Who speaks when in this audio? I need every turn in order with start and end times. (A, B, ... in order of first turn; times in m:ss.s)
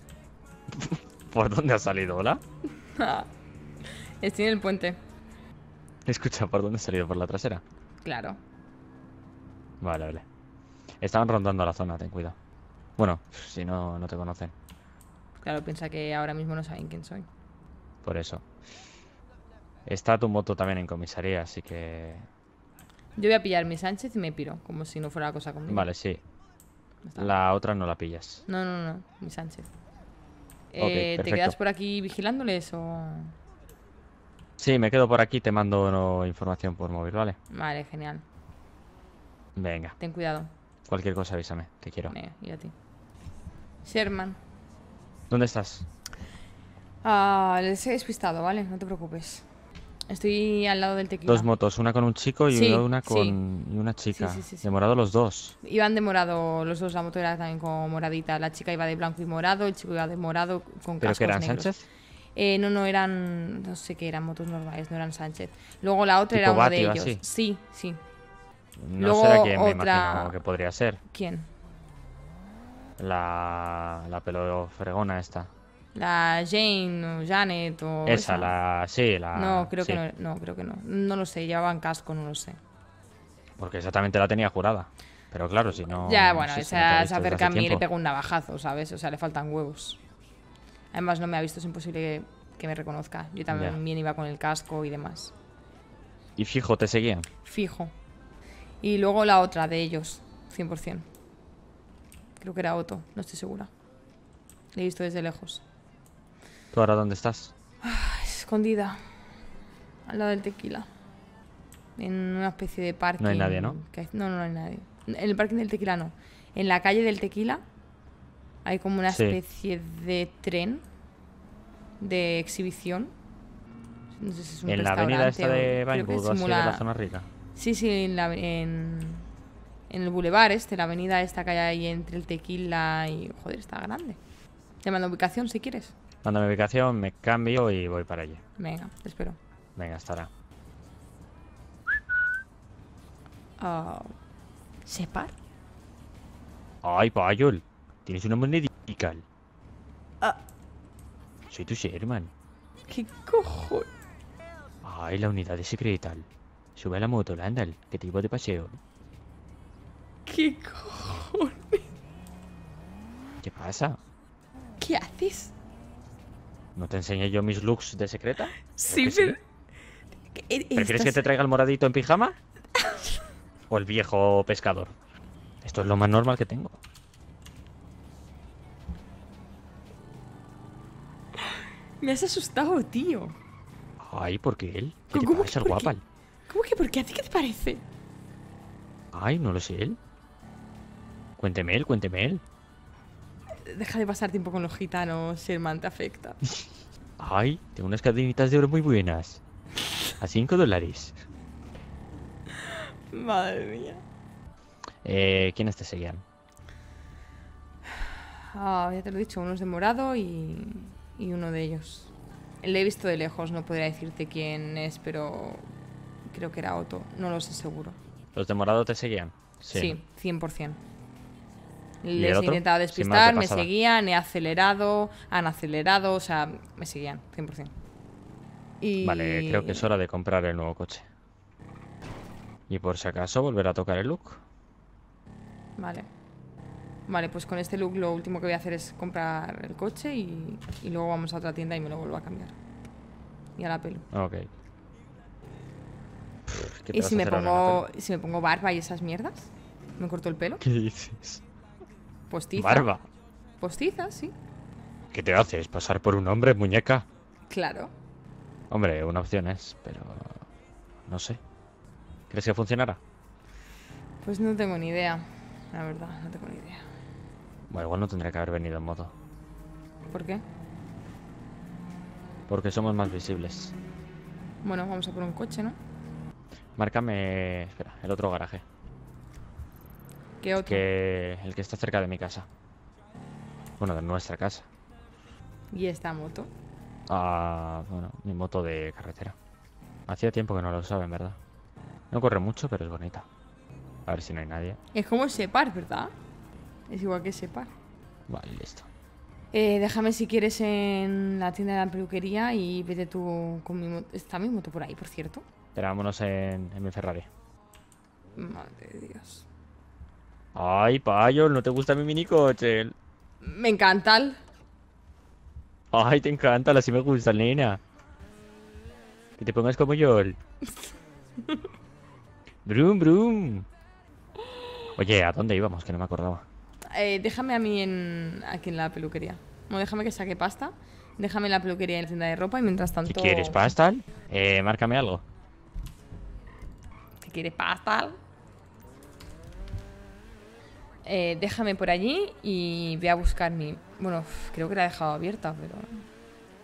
0:00.7-0:02.4 A
0:02.8-0:03.3 B
0:04.2-0:05.0 B
0:06.1-0:07.6 A
0:08.0-0:08.4 B
0:09.8-0:10.2 A
0:11.0-0:12.4 A
0:13.0-0:14.5 A
0:15.4-0:17.3 B
0:18.0-0:18.4 A
0:19.9-0:22.3 A
0:23.2-0:25.9 B
0:25.7-0:26.2 A
0:27.0-0:27.3 B
0:27.2-0:28.4 A
0:28.4-0:29.7 B
0:30.7-0:33.4 B
0:30.8-0:31.6 A
0:34.6-0:37.4 A
0:37.5-0:38.2 B
0:39.6-0:40.0 A
0:40.0-0:40.5 B
0:40.9-0:42.1 A
0:42.1-0:42.7 B
0:43.8-0:44.4 B
0:45.3-0:45.9 A
0:47.0-0:49.4 B
0:50.1-0:51.5 B
0:51.3-0:55.6 A
0:52.5-0:53.4 B
0:54.1-0:54.7 B
0:55.6-1:01.7 B
1:01.0-1:01.9 A
1:02.4-1:08.0 B
1:06.3-1:07.2 A
1:08.8-1:11.0 A
1:09.0-1:10.4 B
1:11.1-1:11.5 B
1:13.0-1:15.5 A
1:16.0-1:18.6 B
1:18.1-1:20.0 A
1:19.3-1:22.6 B
1:23.6-1:27.8 A
1:25.8-1:30.0 B
1:30.9-1:35.3 B
1:33.5-1:33.8 A
1:36.4-1:37.3 A
1:37.4-1:37.9 B
1:38.8-1:41.1 B
1:42.4-1:43.7 B
1:44.7-1:45.6 B
1:46.7-1:47.5 A
1:47.8-1:49.0 B
1:50.1-1:50.9 B
1:52.0-1:57.6 B
1:53.2-1:53.8 A
1:58.6-2:00.8 B
1:59.1-1:59.4 A
2:02.0-2:03.1 B
2:04.2-2:06.9 B
2:04.7-2:07.3 A
2:07.5-2:09.3 B
2:09.9-2:14.2 B
2:14.8-2:15.9 B
2:16.2-2:18.4 A
2:18.6-2:19.4 B
2:19.8-2:20.3 A
2:23.6-2:24.2 B
2:24.9-2:25.3 B
2:26.8-2:29.2 A
2:31.5-2:32.3 A
2:32.9-2:33.9 B
2:34.8-2:38.8 A
2:40.2-2:41.9 B
2:43.4-2:44.0 A
2:44.8-2:45.5 B
2:46.8-2:49.4 A
2:48.7-2:49.4 B
2:50.3-2:51.2 B
2:50.8-2:52.4 A
2:52.8-2:53.2 B
2:53.7-2:54.9 A
2:55.6-2:56.8 A
3:01.4-3:03.4 B
3:04.0-3:06.0 A
3:05.1-3:05.9 B
3:06.5-3:07.8 B
3:09.1-3:10.0 A
3:11.4-3:12.4 A
3:13.6-3:16.4 B
3:17.2-3:19.4 A
3:20.2-3:21.2 A
3:22.6-3:24.0 B
3:25.0-3:26.2 A
3:27.9-3:35.6 B
3:36.3-3:38.0 B
3:38.4-3:40.0 A
3:39.7-3:40.8 B
3:42.0-3:47.7 B
3:42.1-3:43.7 A
3:48.8-3:49.9 B
3:49.0-3:51.1 A
3:52.7-3:54.4 A
3:55.8-3:56.1 B
3:57.1-4:02.5 B
4:03.6-4:04.0 B
4:04.1-4:04.5 A
4:06.5-4:07.8 A
4:06.9-4:10.6 B
4:10.6-4:11.4 A
4:12.3-4:12.9 B
4:12.6-4:13.0 A
4:13.6-4:14.3 B
4:15.1-4:17.1 A
4:17.5-4:17.9 B
4:18.7-4:20.4 A
4:21.1-4:21.4 A
4:22.3-4:23.0 A
4:24.2-4:26.8 B
4:27.7-4:29.1 A
4:30.1-4:30.4 B
4:32.5-4:33.8 A
4:34.6-4:35.8 B
4:36.8-4:38.6 A
4:40.4-4:40.8 B
4:40.7-4:42.5 A
4:43.8-4:44.7 A
4:45.7-4:46.5 B
4:47.1-4:49.4 A
4:50.1-4:51.4 A
4:52.1-4:53.2 A
4:54.1-4:54.8 A
4:54.9-4:56.1 B
4:56.9-4:57.7 B
4:58.3-4:58.9 A
4:59.5-5:05.4 B
5:05.8-5:07.3 A
5:08.4-5:09.5 B
5:10.5-5:13.0 A
5:13.4-5:14.4 B
5:15.9-5:17.8 A
5:19.4-5:20.4 A
5:21.4-5:21.7 B
5:22.6-5:23.6 A
5:25.0-5:26.4 A
5:26.9-5:33.6 B
5:33.1-5:35.2 A
5:37.2-5:38.2 B
5:41.0-5:46.1 B